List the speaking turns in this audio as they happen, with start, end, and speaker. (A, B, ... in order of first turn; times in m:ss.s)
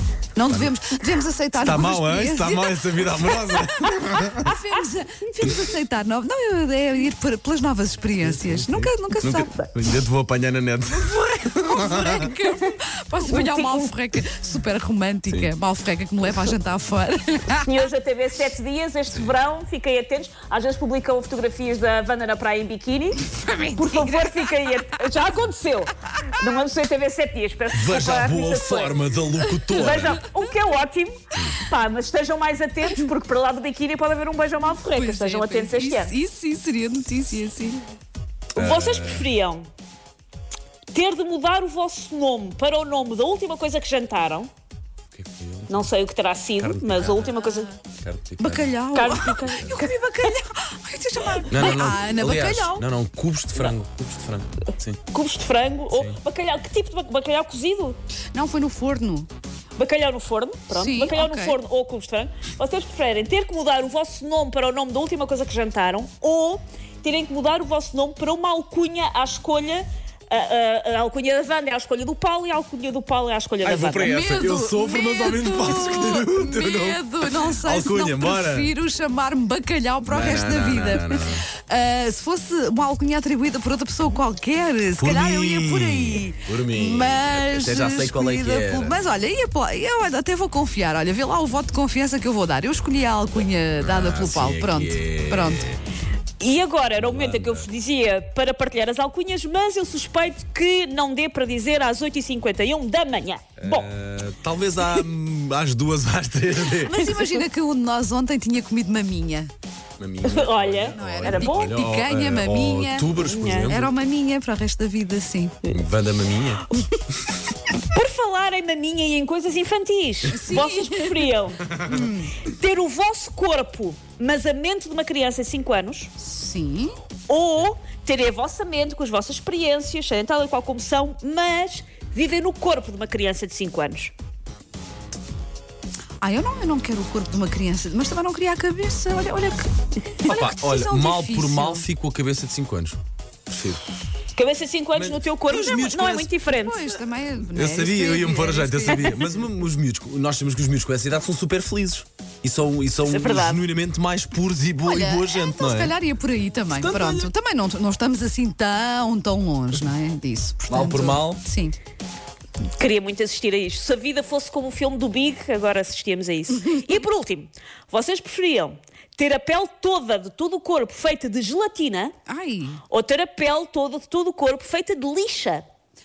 0:00.3-0:09.4 A
0:00.4-0:00.8 B
0:01.5-0:04.5 B
0:04.4-0:05.4 C
0:08.2-0:12.3 B
0:09.3-0:09.7 C
0:11.0-0:17.8 A
0:13.2-0:13.9 C
0:17.6-0:23.2 C
0:23.2-0:25.0 A
0:23.7-0:29.1 C
0:27.7-0:30.2 B
0:29.4-0:30.4 A
0:29.7-0:36.2 C
0:34.8-0:37.8 A
0:38.5-0:39.7 C
0:38.6-0:39.2 B
0:40.9-0:44.5 C
0:45.1-0:45.9 B
0:45.7-0:47.7 C
0:46.6-0:47.3 B
0:47.3-0:47.8 A
0:48.0-0:49.8 B
0:48.4-0:52.9 A
0:48.9-0:50.4 C
0:51.4-0:51.8 C
0:51.5-0:55.0 B
0:55.1-0:58.0 C
0:55.9-0:56.2 B
0:58.3-0:59.3 A
0:59.8-1:14.1 C
1:00.7-1:01.6 A
1:13.6-1:18.7 B
1:14.0-1:35.7 A
1:20.0-1:21.4 B
1:25.0-1:29.0 B
1:33.8-1:35.8 B
1:36.4-1:43.9 C
1:37.0-1:37.7 B
1:43.6-1:47.3 B
1:46.8-1:49.5 A
1:50.0-1:53.9 B
1:50.2-1:51.8 C
1:50.9-1:55.7 A
1:53.2-1:53.8 C
1:55.6-1:56.6 B
1:57.9-2:01.6 C
2:00.3-2:02.4 A
2:01.7-2:02.1 B
2:02.4-2:06.1 C
2:06.2-2:06.9 A
2:07.3-2:14.1 C
2:16.2-2:19.7 A
2:20.2-2:21.9 A
2:20.3-2:23.8 B
2:24.3-2:26.9 C
2:24.9-2:26.3 B
2:25.6-2:29.2 A
2:27.5-2:35.9 B
2:33.0-2:33.6 C
2:34.8-2:41.8 A
2:36.7-2:37.3 B
2:40.7-2:41.4 B
2:42.8-2:52.1 C
2:52.3-2:52.8 A
2:52.9-2:55.6 C